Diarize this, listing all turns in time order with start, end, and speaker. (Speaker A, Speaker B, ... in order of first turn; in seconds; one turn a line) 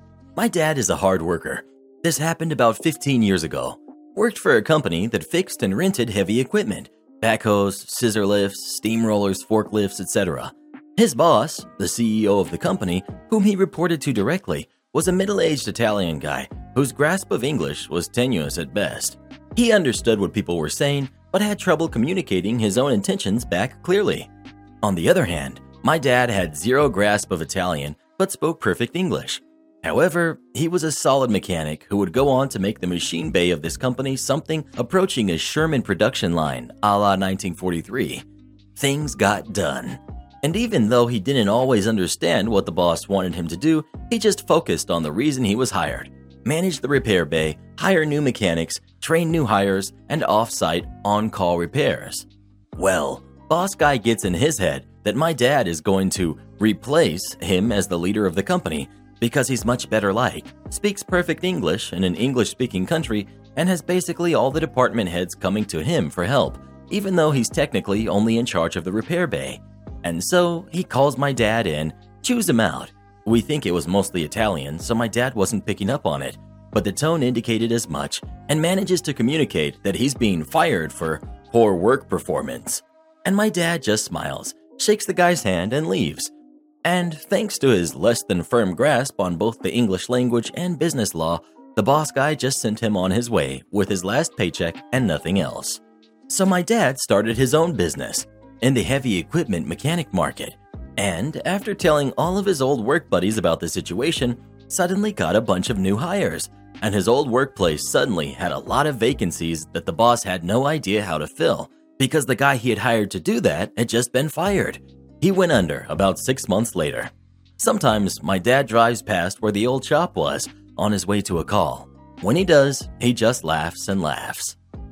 Speaker A: 0.4-24.3
Speaker A: 24.8-38.2
Speaker A: 38.8-86.3
Speaker A: 86.8-124.6